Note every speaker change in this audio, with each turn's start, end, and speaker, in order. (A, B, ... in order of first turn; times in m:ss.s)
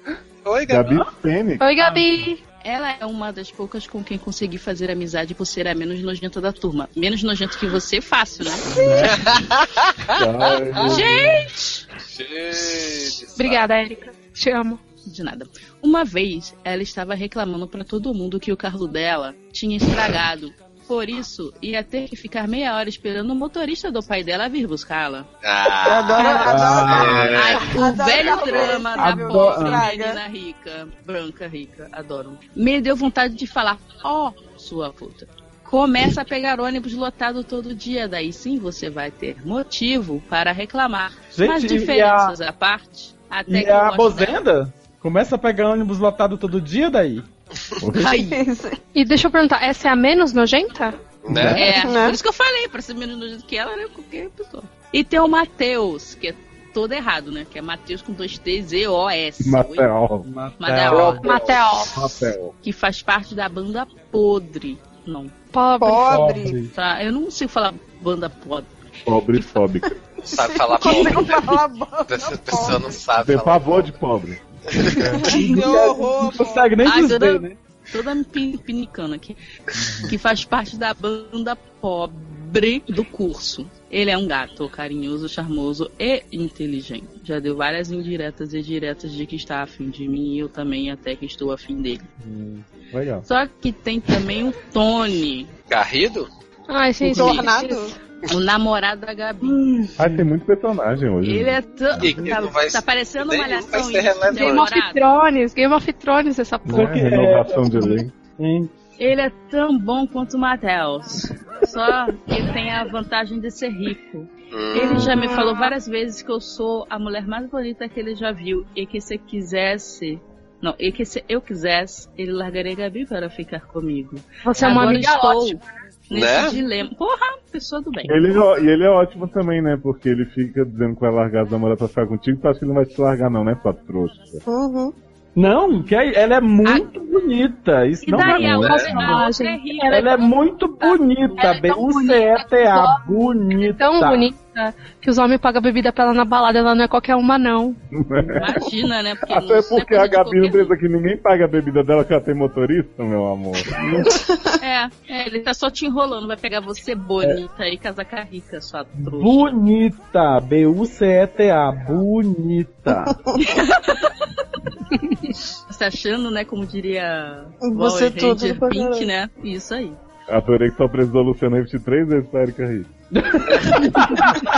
0:00.4-0:01.1 A
0:00.7-0:02.0 B
0:01.6-0:02.4 C
0:02.6-0:08.9 D
0:08.7-0:09.1 E
0:09.0-0:10.2 A
0:10.1-0:11.4 B
0:10.7-0:11.6 D
0:12.1-0:13.6 A
0:13.4-0:14.8 C
0:15.0-0:25.3 D
0:25.4-0:28.8 A
0:25.8-0:30.2 F
0:25.9-0:27.3 E
0:26.2-0:44.4 D
0:28.9-0:29.8 E
0:41.3-0:42.4 E
0:43.5-0:47.2 E
0:47.8-0:48.1 B
0:47.9-0:48.4 D
0:48.0-0:48.8 F
0:48.9-0:51.0 C
0:51.2-0:51.7 A
0:51.3-0:51.7 B
0:51.5-0:59.9 D
0:51.6-0:52.2 F
0:59.4-1:00.3 B
1:00.2-1:01.2 E
1:00.6-1:01.2 D
1:00.9-1:02.5 B
1:01.2-1:02.0 C
1:02.6-1:05.3 D
1:05.5-1:06.3 C
1:05.8-1:06.6 F
1:06.0-1:06.7 E
1:06.7-1:08.8 D
1:09.0-1:10.0 B
1:10.2-1:12.9 F
1:10.2-1:13.9 A
1:13.2-1:14.4 B
1:14.7-1:15.3 A
1:15.0-1:15.6 B
1:15.0-1:16.8 F
1:15.0-1:17.6 E
1:16.8-1:19.4 D
1:19.7-1:20.1 B
1:20.1-1:32.0 D
1:32.2-1:33.2 B
1:33.3-1:35.5 D
1:35.7-1:36.3 A
1:36.7-1:38.0 C
1:37.0-1:37.9 F
1:38.3-1:39.9 D
1:39.4-1:40.2 E
1:40.0-1:42.3 B
1:41.2-1:45.0 D
1:42.0-1:44.7 A
1:44.3-1:47.0 C
1:46.6-1:48.1 B
1:46.7-1:48.7 E
1:49.0-2:08.4 D
1:54.5-1:55.0 A
1:54.8-1:55.7 C
1:54.9-1:55.2 B
2:04.4-2:05.7 C
2:06.1-2:06.6 A
2:08.0-2:14.4 B
2:14.4-2:14.9 F
2:15.4-2:19.2 E
2:16.6-2:16.9 D
2:18.0-2:22.0 D
2:18.1-2:18.9 B
2:18.6-2:20.3 C
2:19.9-2:24.3 E
2:21.3-2:27.8 C
2:27.9-2:28.7 B
2:28.4-2:30.7 D
2:29.3-2:34.2 B
2:34.0-2:34.5 F
2:34.6-2:39.6 D
2:39.0-2:43.2 E
2:42.9-2:43.8 F
2:43.6-2:44.0 D
2:45.7-2:50.0 D
2:47.6-2:49.1 F
2:50.3-2:52.9 B
2:53.6-2:54.2 D
2:53.7-2:54.4 B